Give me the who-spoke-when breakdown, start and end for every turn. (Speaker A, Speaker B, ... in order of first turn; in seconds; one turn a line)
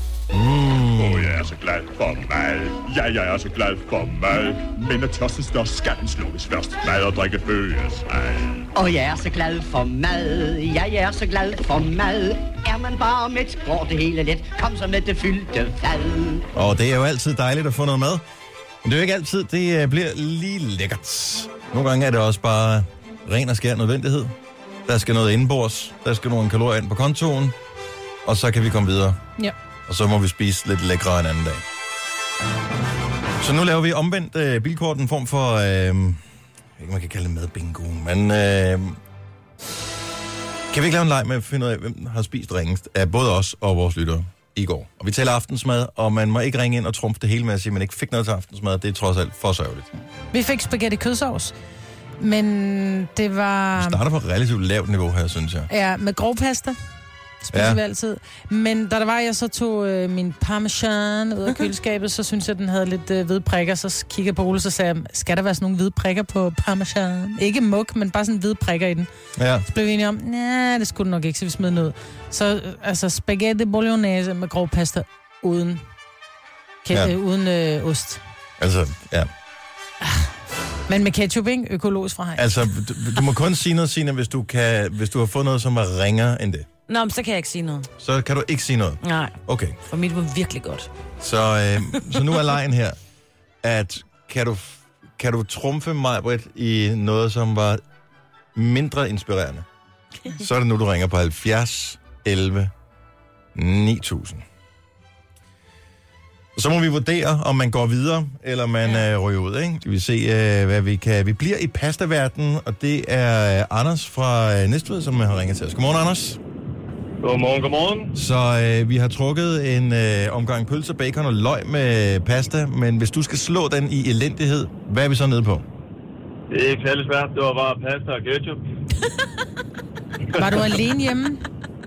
Speaker A: 0.3-1.4
Speaker B: 1.0-8.7
Speaker C: 8.7-16.4
Speaker A: 16.5-18.2
Speaker A: 18.8-24.3
Speaker A: 24.9-27.5
Speaker A: 28.2-29.2
Speaker A: 29.9-31.6
Speaker A: 33.4-36.2
Speaker A: 36.8-39.0
Speaker A: 40.7-49.9
Speaker D: 50.3-51.5
Speaker D: 52.2-54.0
Speaker A: 53.8-55.7
Speaker D: 55.7-56.8
Speaker D: 57.4-69.1
Speaker A: 57.5-57.8
Speaker A: 69.3-69.7
Speaker D: 69.6-75.8
Speaker D: 76.8-78.2
Speaker A: 78.6-79.3
Speaker D: 80.9-82.5
Speaker A: 82.4-86.7
Speaker E: 86.9-87.9
Speaker A: 88.0-89.8
Speaker E: 89.0-89.3
Speaker E: 89.8-90.9
Speaker A: 91.2-93.0
Speaker A: 93.6-97.8
Speaker A: 98.5-99.7
Speaker A: 100.2-102.7
Speaker A: 103.5-104.4
Speaker A: 106.5-116.4
Speaker F: 117.2-118.1
Speaker A: 118.1-125.6
Speaker F: 126.5-128.6
Speaker D: 130.3-131.4